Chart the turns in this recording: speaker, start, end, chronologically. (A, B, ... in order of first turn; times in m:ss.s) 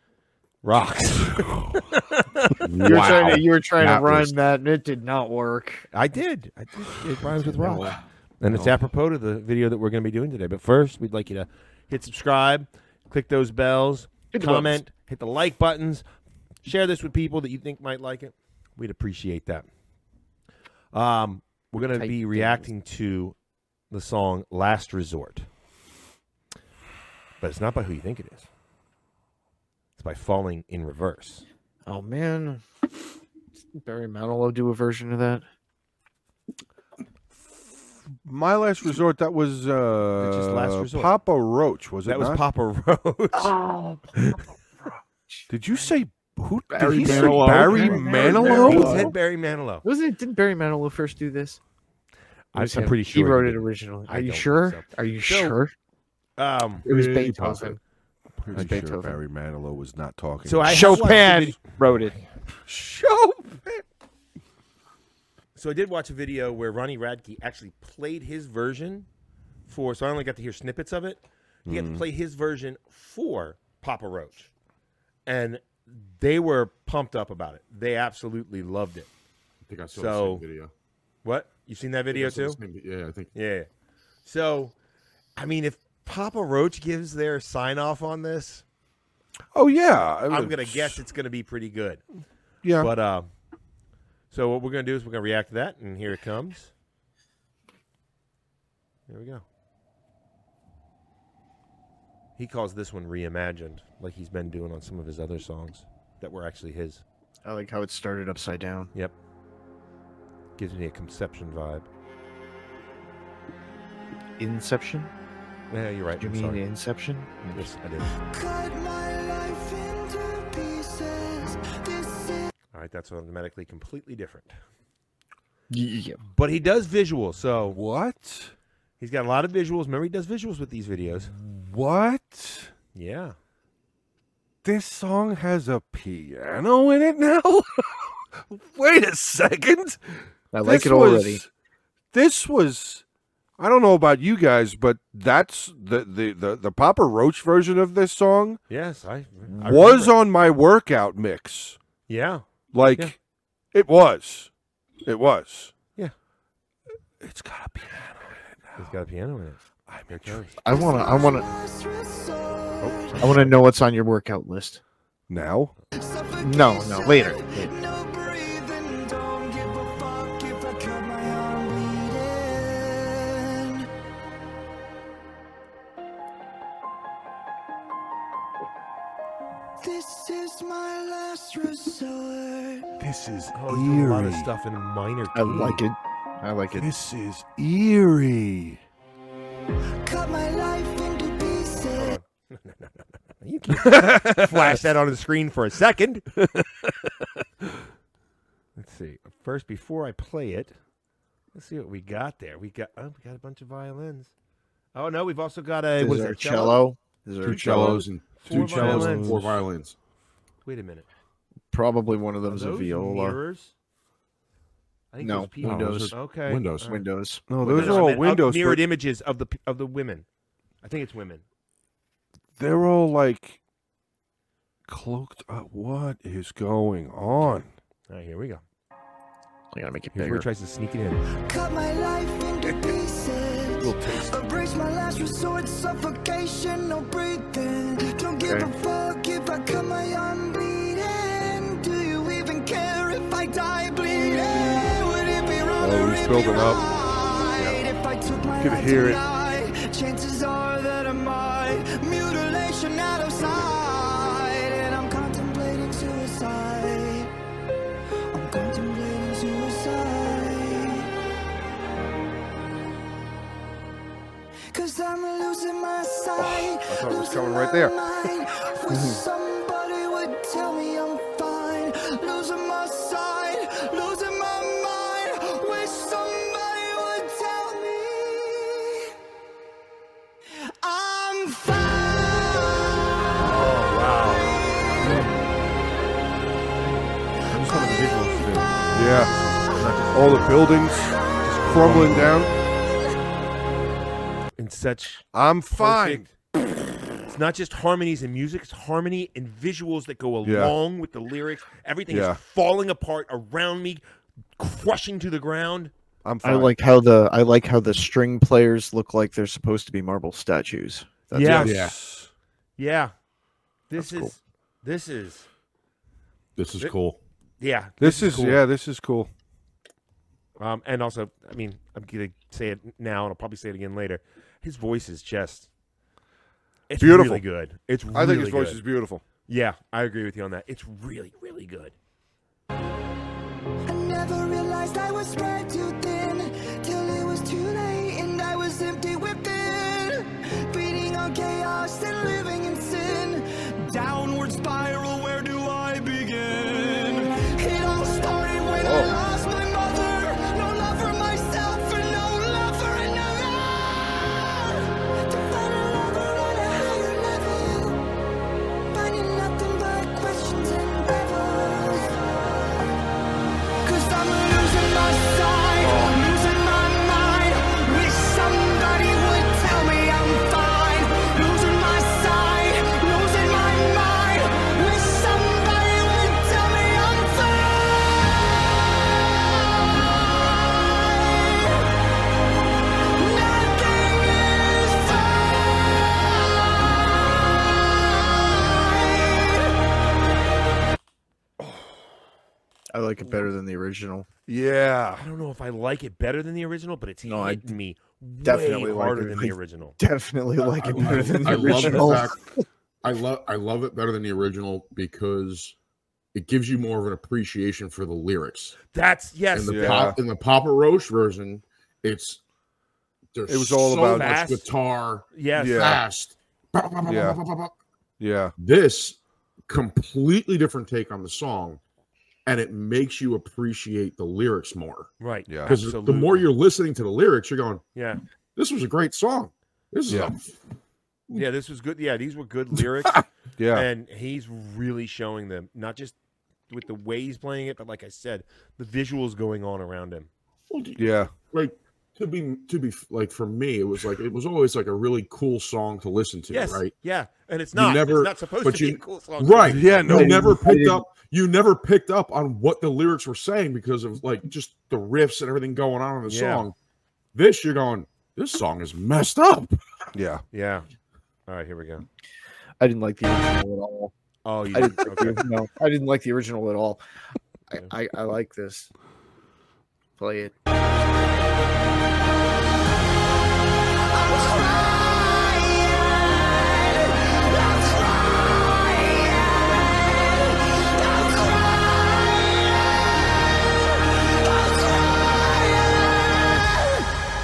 0:00.6-0:03.4 A
0:02.7-0:04.3 B
0:02.8-0:05.9 C
0:05.9-0:16.0 A
0:07.7-0:08.0 B
0:14.3-0:14.8 C
0:16.6-0:19.7 A
0:20.9-0:23.4 A
0:21.9-0:22.7 C
0:23.9-0:25.5 A
0:27.4-0:28.5 A
0:30.0-0:31.4 A
0:31.9-0:32.6 C
0:33.7-0:35.4 C
0:38.2-0:42.4 D
0:40.2-0:41.2 A
0:42.0-0:43.5 A
0:43.4-0:44.0 C
0:44.2-0:44.4 A
0:45.5-0:49.0 D
0:46.8-0:49.1 C
0:47.0-0:48.8 E
0:47.0-0:47.6 B
0:48.4-0:49.8 A
0:49.8-0:51.6 C
0:52.5-0:55.6 A
0:52.6-0:55.7 C
0:56.4-0:56.9 A
0:56.9-0:57.8 C
0:56.9-0:57.7 B
0:58.4-1:01.6 D
0:58.5-0:59.2 C
1:00.4-1:01.6 A
1:00.6-1:02.2 C
1:02.7-1:03.8 D
1:05.6-1:09.1 A
1:09.7-1:14.5 A
1:11.7-1:12.0 D
1:15.2-1:19.1 A
1:19.7-1:20.7 B
1:19.9-1:20.4 A
1:21.2-1:22.6 A
1:22.1-1:23.3 B
1:23.3-1:23.7 A
1:24.2-1:24.7 A
1:25.4-1:28.6 A
1:29.6-1:31.0 D
1:30.3-1:32.0 A
1:32.6-1:32.9 D
1:32.8-1:33.3 A
1:34.3-1:36.7 A
1:39.1-1:39.4 A
1:42.4-1:47.0 A
1:47.4-1:48.9 C
1:50.6-1:51.9 A
1:54.4-1:55.1 C
1:55.7-1:56.6 A
1:56.2-1:57.7 C
1:57.5-1:58.2 A
1:58.3-2:02.5 E
2:02.7-2:04.5 A
2:05.7-2:06.2 C
2:06.3-2:07.8 A
2:07.7-2:08.5 D
2:09.0-2:11.3 A
2:11.3-2:12.7 D
2:12.9-2:13.3 A
2:14.6-2:21.5 D
2:20.5-2:21.4 C
2:22.1-2:23.0 D
2:23.6-2:28.6 D
2:28.7-2:30.2 A
2:29.6-2:31.8 D
2:32.1-2:33.1 A
2:32.7-2:33.2 D
2:33.7-2:34.5 D
2:35.0-2:35.7 D
2:37.2-2:38.9 D
2:38.8-2:40.6 A
2:39.9-2:40.6 D
2:40.6-2:41.5 C
2:40.7-2:43.2 E
2:42.8-2:43.5 A
2:43.2-2:44.8 C
2:45.3-2:45.7 D
2:46.0-2:53.9 E
2:46.4-2:47.5 C
2:59.8-3:02.9 E
3:03.0-3:04.5 D
3:03.5-3:05.8 A
3:05.3-3:06.9 C
3:06.7-3:08.8 D
3:10.0-3:12.2 E
3:11.9-3:16.3 A
3:13.9-3:14.8 D
3:16.4-3:17.1 D
3:18.8-3:20.8 A
3:21.5-3:24.3 A
3:24.9-3:26.8 A
3:26.0-3:28.1 C
3:27.4-3:29.4 A
3:27.4-3:30.0 B
3:27.8-3:29.6 D
3:30.6-3:31.1 A
3:31.7-3:33.4 C
3:32.4-3:33.7 A
3:35.1-3:37.0 A
3:35.2-3:36.2 C
3:35.6-3:36.9 B
3:36.8-3:37.4 C
3:37.5-3:38.8 D
3:37.6-3:40.3 A
3:40.8-3:41.4 A
3:42.6-3:43.6 D
3:44.9-3:47.7 D
3:48.1-3:48.6 A
3:49.7-3:50.5 C
3:50.1-3:51.3 A
3:51.4-4:17.3 E
3:53.8-3:54.4 D
3:58.4-3:58.7 C
4:05.8-4:06.9 D
4:08.6-4:09.2 D
4:18.3-4:21.1 E
4:24.7-4:39.1 E
4:26.4-4:28.0 D
4:28.9-4:29.2 D
4:40.8-4:43.2 E
4:43.4-4:44.5 A
4:45.0-4:45.3 D
4:47.5-4:50.6 A
4:48.4-4:49.3 D
4:50.1-4:52.5 D
4:51.6-4:52.3 A
4:54.6-4:56.3 A
4:55.3-4:56.2 D
4:57.3-5:04.0 A
5:00.4-5:00.8 D
5:02.1-5:02.4 D
5:04.6-5:05.9 A
5:06.2-5:06.7 D
5:06.4-5:11.7 C
5:11.3-5:11.8 A
5:11.4-5:12.3 D
5:11.7-5:11.9 B
5:12.8-5:13.1 A
5:13.9-5:15.5 A
5:14.0-5:14.3 C
5:16.6-5:17.2 B
5:17.6-5:18.6 A
5:18.0-5:19.3 D
5:20.6-5:25.7 A
5:26.9-5:28.8 A
5:27.0-5:27.4 D
5:28.1-5:29.2 D
5:29.4-5:32.0 A
5:33.8-5:58.1 E
5:48.7-5:49.1 D
5:58.9-6:02.2 E
6:03.8-6:18.4 E
6:19.4-6:20.0 E
6:20.8-6:21.8 E
6:23.1-6:26.2 E
6:32.9-6:34.2 C
6:34.5-6:35.2 D
6:35.2-6:40.0 A
6:37.2-6:37.8 C
6:38.4-6:42.6 C
6:40.9-6:42.3 B
6:41.1-6:41.6 D
6:43.0-6:45.8 B
6:46.3-6:48.8 B
6:48.8-6:50.2 A
6:49.5-6:52.4 B
6:49.6-6:50.2 D
6:53.3-6:57.7 B
6:53.5-6:54.4 D
6:54.1-6:54.7 A
6:55.3-6:56.0 A
6:55.6-6:56.0 D
6:57.1-6:57.4 D
6:58.2-6:58.5 D
6:58.6-6:59.2 B
6:59.7-7:01.8 B
7:02.4-7:05.1 B
7:05.2-7:06.5 A
7:05.5-7:05.8 D
7:05.7-7:07.8 B
7:07.9-7:08.2 A
7:08.6-7:10.6 B
7:10.1-7:10.3 D
7:11.3-7:16.2 A
7:13.6-7:13.9 D
7:16.7-7:20.3 A
7:20.7-7:21.0 B
7:21.0-7:21.3 D
7:21.5-7:26.9 B
7:26.5-7:30.4 A
7:27.7-7:36.8 B
7:29.6-7:30.5 D
7:30.0-7:31.1 C
7:36.2-7:36.6 A
7:37.3-7:39.8 B
7:40.1-7:40.4 D
7:40.5-7:40.9 A
7:41.5-7:42.0 A
7:42.8-7:44.1 C
7:44.4-7:45.4 A
7:44.7-7:47.0 C
7:47.7-7:48.9 C
7:50.2-7:50.7 C
7:54.1-8:03.1 E
8:04.0-8:05.9 E